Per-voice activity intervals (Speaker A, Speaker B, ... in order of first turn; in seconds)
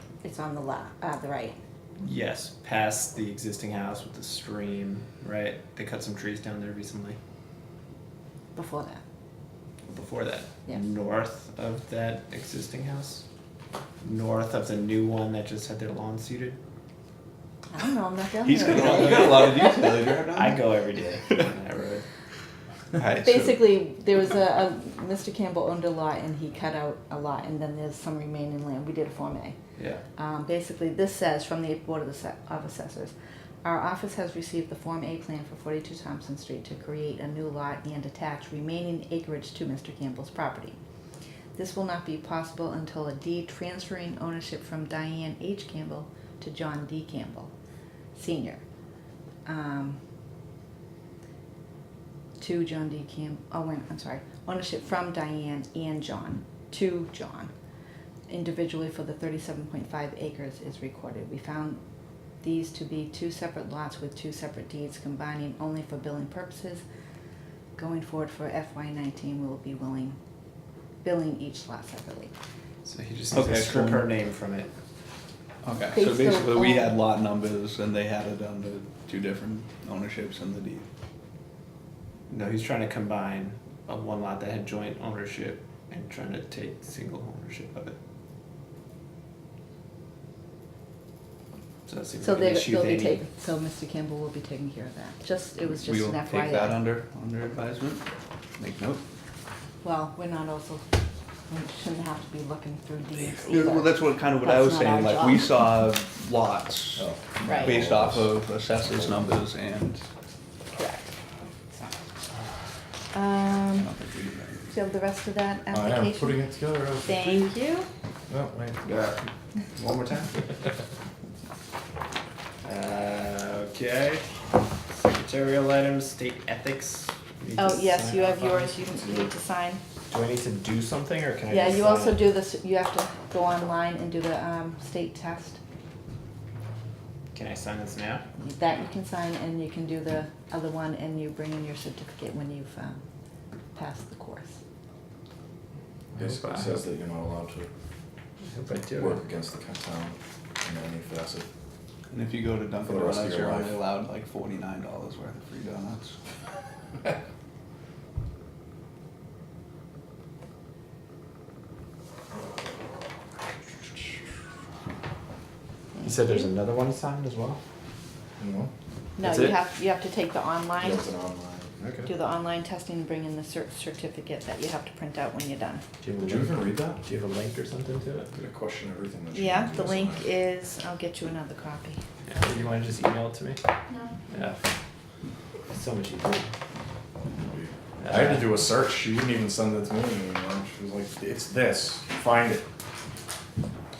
Speaker A: 0.2-1.6, 8.5-9.0, 17.7-19.6, 23.2-29.6, 30.1-40.8, 41.5-47.5, 48.1-48.6, 49.5-50.0, 52.4-57.5, 58.3-61.8, 62.4-66.8, 67.8-70.2, 71.0-72.3, 75.9-76.9, 92.2-96.8, 99.8-100.9, 101.5-105.5, 107.4-107.8, 110.7-111.9, 113.1-113.9, 114.7-116.4, 117.0-117.9, 127.6-129.8, 131.5-135.6, 138.4-143.0, 143.7-144.6, 165.9-166.5, 169.2-171.1, 172.1-175.8, 179.3-182.0
Speaker B: 2.0-7.2, 9.9-13.2, 14.0-16.6, 18.7-19.4, 20.3-22.0, 29.8-30.0, 72.8-74.7, 82.3-88.0, 91.9-93.2, 118.8-119.2, 119.7-120.5, 122.6-124.3, 124.9-128.8, 130.1-132.2, 137.3-138.2, 146.1-146.8, 148.4-149.2, 166.0-167.6, 169.2-169.6, 176.0-178.3, 182.3-183.6, 184.3-184.6, 185.7-186.5, 188.0-188.5
Speaker C: 18.4-20.8, 22.9-23.7, 73.3-74.1, 75.6-80.8, 95.8-98.0, 98.6-99.0, 103.2-110.0, 113.8-114.7, 152.1-156.2
Speaker D: 107.0-108.3, 115.7-117.3, 118.3-118.8, 129.0-129.3, 146.2-147.7, 149.0-151.4, 152.8-153.8, 168.4-168.7, 170.8-172.1, 176.2-177.0, 178.3-180.3, 187.3-192.6